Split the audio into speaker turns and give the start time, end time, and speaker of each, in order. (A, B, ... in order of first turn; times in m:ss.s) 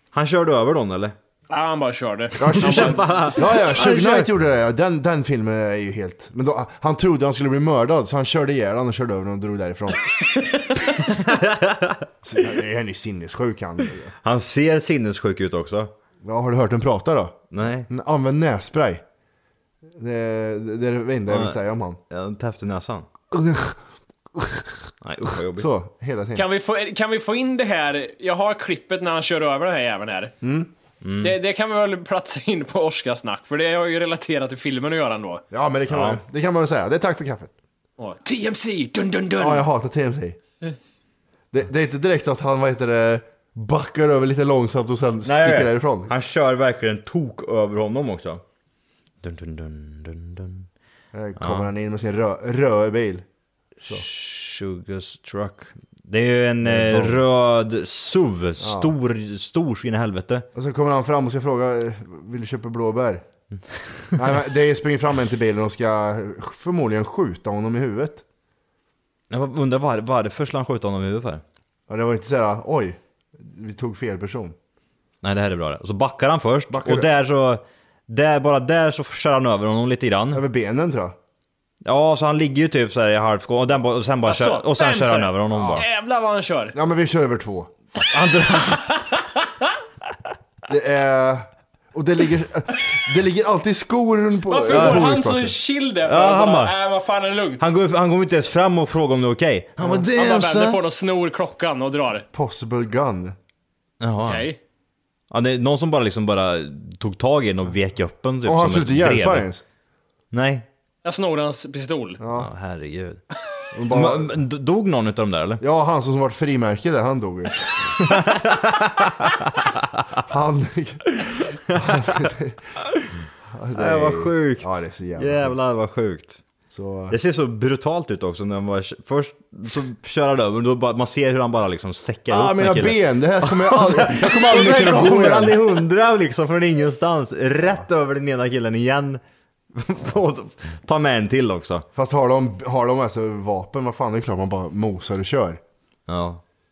0:00.1-0:01.2 A
0:01.5-0:03.4 B
0:02.4-0:10.1 C
0:02.4-0:04.3 A
0:11.0-0:12.1 A
0:12.2-0:14.1 C
0:14.2-0:15.9 A
0:16.2-0:19.0 C
0:17.5-0:17.9 A
0:20.0-0:22.0 C
0:21.3-0:21.5 A
0:22.1-0:23.1 A
0:23.3-0:23.8 C
0:24.4-0:24.7 C
0:25.0-0:25.7 A
0:25.6-0:26.4 C
0:26.3-0:30.3 B
0:30.4-0:30.7 C
0:31.0-0:31.3 A
0:31.2-0:35.4 B
0:35.5-0:37.5 C
0:35.9-0:36.2 A
0:38.0-0:39.6 B
0:39.4-0:40.4 C
0:41.5-0:46.1 C
0:45.2-0:48.4 A
0:49.2-0:50.6 A
0:51.1-0:53.2 C
0:51.4-0:51.7 A
0:53.8-1:00.4 A
0:56.6-0:57.2 C
0:58.6-0:58.9 C
1:00.5-1:03.2 C
1:04.2-1:08.2 C
1:09.3-1:11.4 A
1:11.9-1:14.5 C
1:15.2-1:20.4 A
1:16.7-1:17.1 C
1:20.3-1:21.2 C
1:21.8-1:25.8 A
1:24.2-1:26.7 B
1:25.5-1:25.8 C
1:26.7-1:28.3 C
1:28.0-1:29.0 A
1:30.7-1:35.6 C
1:34.5-1:37.6 B
1:34.7-1:35.1 A
1:36.0-1:36.7 A
1:37.6-1:40.8 A
1:39.8-1:40.0 C
1:40.1-1:42.2 B
1:42.3-1:43.4 C
1:44.0-1:44.5 A
1:44.2-1:44.6 B
1:45.3-1:49.5 A
1:48.4-1:49.6 C
1:50.3-1:50.6 A
1:51.0-1:52.2 B
1:52.2-1:52.5 C
1:52.3-1:53.2 A
1:53.7-1:54.4 C
1:53.9-1:55.6 A
1:55.6-1:57.6 C
1:58.0-2:00.2 A
2:00.3-2:02.6 C
2:01.7-2:02.3 A
2:03.5-2:05.6 C
2:03.7-2:06.4 A
2:06.7-2:07.2 C
2:07.1-2:19.2 A
2:12.3-2:15.8 C
2:19.7-2:21.8 A
2:21.9-2:25.6 C
2:26.1-2:26.4 A